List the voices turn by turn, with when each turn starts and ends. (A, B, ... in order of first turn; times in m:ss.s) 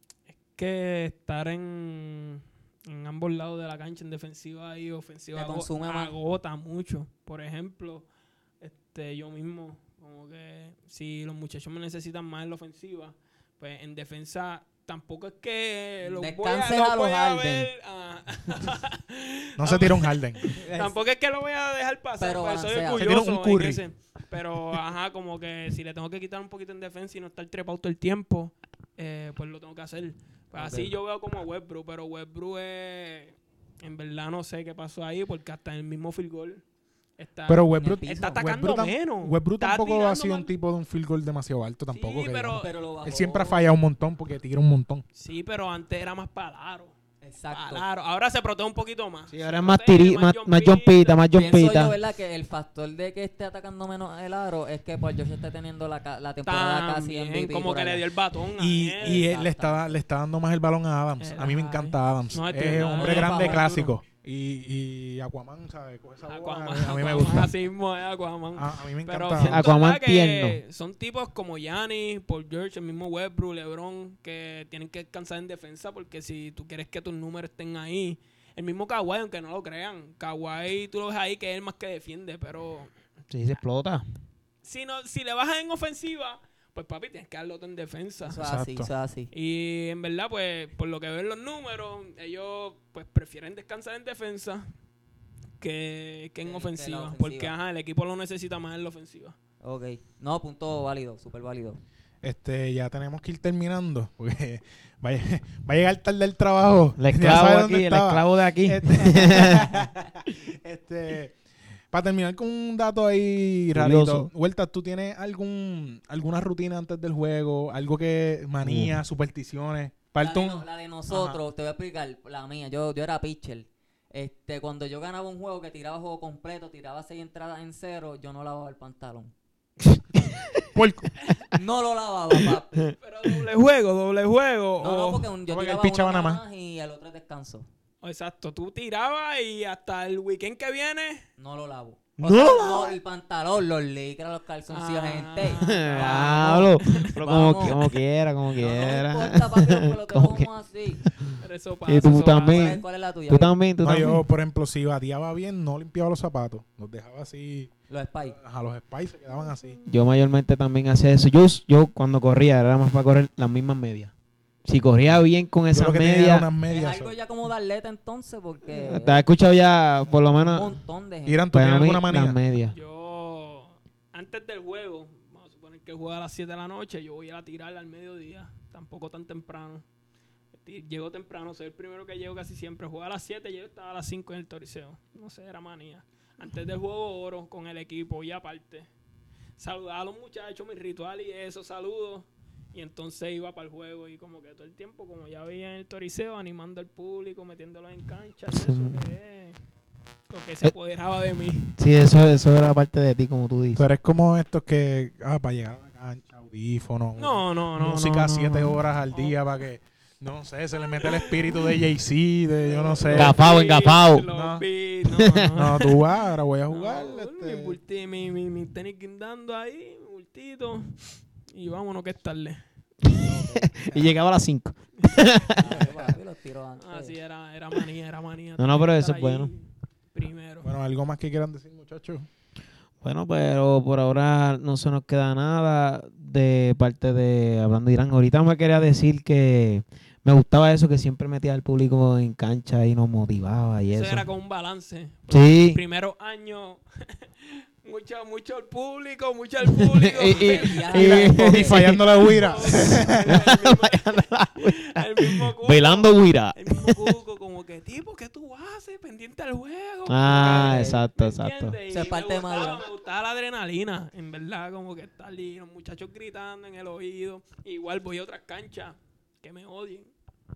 0:00.3-0:08.1 A
0:05.4-0:06.1 B
0:08.6-0:36.6 A
0:16.0-0:17.7 B
0:19.6-0:20.6 C
0:20.6-0:20.9 B
0:22.2-0:23.1 B
0:23.0-0:23.8 C
0:30.6-0:30.9 B
0:37.2-0:40.5 A
0:37.5-0:45.0 C
0:37.8-0:38.4 B
0:41.9-0:42.7 A
0:42.6-0:43.6 B
0:45.2-0:46.9 A
0:47.2-0:47.8 B
0:47.5-0:51.2 A
0:49.3-0:52.0 D
0:51.3-0:58.0 B
0:56.4-0:59.3 A
0:58.6-1:07.5 C
0:59.0-1:00.0 B
1:01.2-1:03.9 A
1:02.8-1:03.9 B
1:06.3-1:22.9 A
1:08.6-1:09.7 C
1:09.4-1:10.6 D
1:23.3-1:24.0 D
1:24.6-1:28.4 A
1:28.2-1:29.3 B
1:28.4-1:28.9 C
1:29.3-1:34.7 A
1:35.6-1:39.4 A
1:36.4-1:37.6 B
1:39.6-1:41.8 B
1:42.2-1:51.4 C
1:47.0-1:49.7 D
1:51.9-2:01.4 C
1:53.7-1:54.3 D
1:58.6-1:59.0 D
2:00.2-2:09.3 B
2:10.7-2:11.1 C
2:11.5-2:13.0 B
2:12.9-2:15.3 A
2:14.8-2:17.7 B
2:15.5-2:16.4 C
2:18.0-2:21.2 A
2:21.4-2:28.0 B
2:22.2-2:23.0 D
2:24.7-2:27.1 A
2:25.5-2:30.5 D
2:28.6-2:31.0 B
2:31.0-2:34.2 D
2:31.4-2:32.8 A
2:32.2-2:33.6 B
2:33.8-2:37.7 C
2:37.9-2:38.4 B
2:38.3-2:39.8 C
2:39.4-2:39.8 A
2:39.9-2:44.1 D
2:44.6-2:46.5 D
2:45.7-2:47.2 C
2:46.7-2:49.2 B
2:48.8-2:50.7 D
2:50.4-2:51.5 B
2:51.3-2:52.4 C
2:51.5-2:52.8 D
2:52.7-2:59.8 A
3:00.6-3:08.9 A
3:09.6-3:19.6 A
3:18.5-3:19.0 D
3:20.3-3:21.8 A
3:21.8-3:23.8 D
3:23.8-3:33.4 C
3:27.2-3:28.6 A
3:28.4-3:28.7 D
3:29.1-3:29.4 A
3:31.0-3:31.8 A
3:32.6-3:36.1 A
3:33.1-3:34.3 D
3:34.3-3:34.6 C
3:35.1-3:35.5 D
3:35.5-3:37.8 C
3:36.7-3:42.6 A
3:43.0-3:45.7 D
3:43.6-3:44.2 C
3:45.0-3:46.0 A
3:45.5-3:47.2 B
3:45.7-3:46.1 C
3:46.8-3:50.7 A
3:48.6-3:49.5 D
3:50.6-3:52.3 C
3:53.0-4:04.3 D
4:03.9-4:11.3 A
4:05.3-4:05.8 D
4:09.7-4:17.2 D
4:10.3-4:11.9 B
4:11.2-4:13.4 C
4:12.0-4:30.1 A
4:20.1-4:21.8 D
4:20.2-4:21.0 B
4:21.9-4:22.9 B